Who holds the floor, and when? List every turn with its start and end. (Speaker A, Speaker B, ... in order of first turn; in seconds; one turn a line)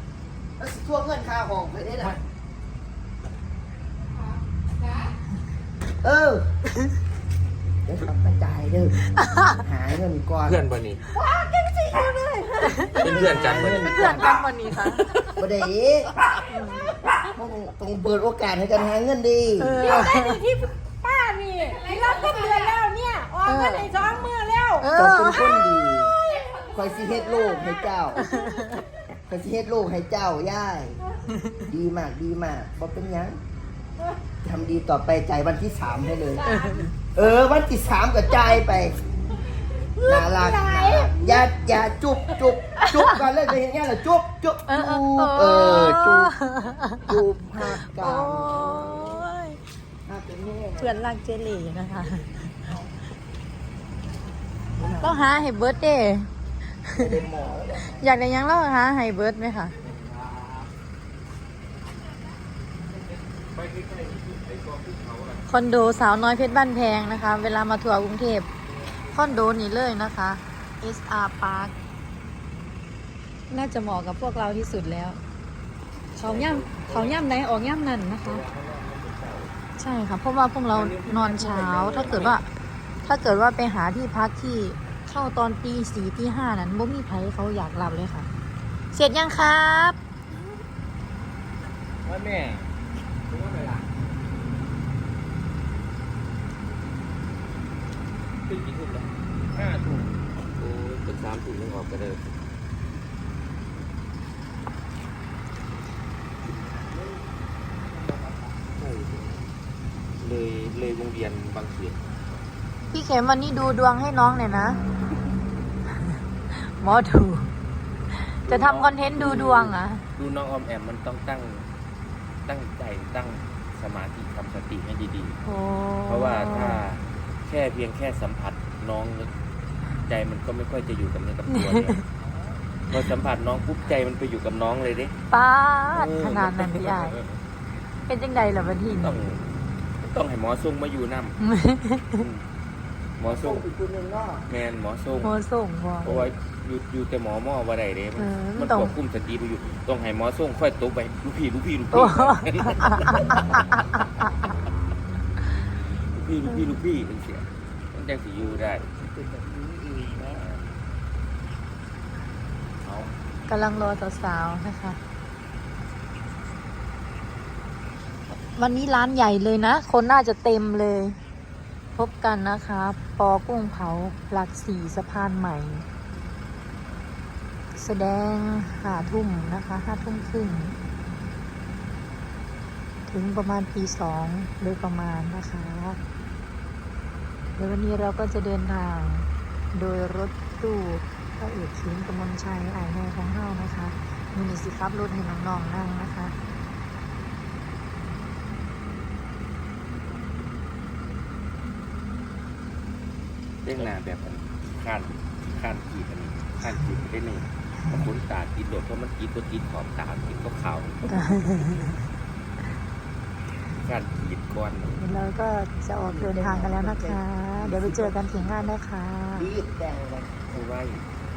Speaker A: 0.6-2.2
Speaker A: 6.0-6.5
Speaker A: 7.8-14.4
Speaker B: 9.2-9.5
Speaker C: 10.4-11.0
Speaker B: 12.6-13.0
Speaker C: 13.0-14.3
Speaker B: 13.8-15.2
Speaker C: 14.8-15.4
Speaker A: 15.3-16.1
Speaker A: 17.3-19.9
Speaker B: 19.6-20.4
Speaker D: 19.8-24.9
Speaker B: 23.4-23.9
Speaker B: 24.8-25.6
Speaker A: 24.9-26.1
Speaker D: 25.9-28.8
Speaker A: 26.7-28.2
Speaker B: 28.2-28.8
Speaker A: 29.3-31.0
Speaker A: 31.7-33.4
Speaker A: 34.4-36.5
Speaker B: 36.5-36.9
Speaker D: 36.5-36.9
Speaker A: 37.1-39.0
Speaker D: 40.0-41.5
Speaker A: 40.0-46.3
Speaker B: 42.8-43.2
Speaker B: 44.7-49.6
Speaker A: 47.0-49.2
Speaker A: 50.1-51.0
Speaker B: 50.8-52.7
Speaker A: 54.8-55.2
Speaker B: 55.0-56.3
Speaker B: 56.8-57.2
Speaker A: 57.0-58.1
Speaker B: 57.9-59.7
Speaker C: 59.8-60.7
Speaker C: 63.3-65.4
Speaker B: 65.5-68.5
Speaker C: 68.7-69.5
Speaker B: 69.1-71.7
Speaker B: 73.5-75.2
Speaker C: 76.2-77.2
Speaker B: 76.2-78.4
Speaker C: 78.2-79.5
Speaker B: 79.8-82.4
Speaker C: 80.7-82.4
Speaker B: 83.0-88.3
Speaker B: 88.9-90.0
Speaker C: 92.0-92.7
Speaker C: 93.3-93.9
Speaker C: 98.5-102.4
Speaker C: 108.6-109.5
Speaker C: 110.2-112.0
Speaker B: 112.9-114.8
Speaker B: 116.5-117.5
Speaker B: 118.1-120.0
Speaker C: 118.5-121.7
Speaker C: 122.5-125.4
Speaker B: 125.4-126.8
Speaker C: 126.1-129.3
Speaker C: 130.1-132.0
Speaker B: 131.5-132.0
Speaker C: 132.8-135.1
Speaker B: 135.3-137.2
Speaker C: 135.9-137.4
Speaker B: 138.1-139.2
Speaker C: 138.9-141.4
Speaker B: 141.4-142.2
Speaker C: 142.1-142.4
Speaker C: 143.2-143.7
Speaker A: 143.2-144.5
Speaker C: 144.5-145.3
Speaker B: 145.2-146.1
Speaker C: 146.0-153.6
Speaker B: 148.1-148.9
Speaker B: 151.9-154.0
Speaker C: 156.1-158.8
Speaker A: 158.4-160.4
Speaker C: 160.2-160.8
Speaker C: 162.8-163.9
Speaker B: 163.5-165.0
Speaker B: 168.3-171.2
Speaker B: 171.9-175.8
Speaker B: 177.8-180.8
Speaker B: 183.1-186.0
Speaker B: 187.6-196.3
Speaker C: 203.6-211.0
Speaker B: 211.1-211.9
Speaker A: 211.1-211.9
Speaker C: 213.8-215.0
Speaker B: 215.0-219.5
Speaker A: 216.0-218.7
Speaker A: 219.3-220.7
Speaker C: 220.5-221.0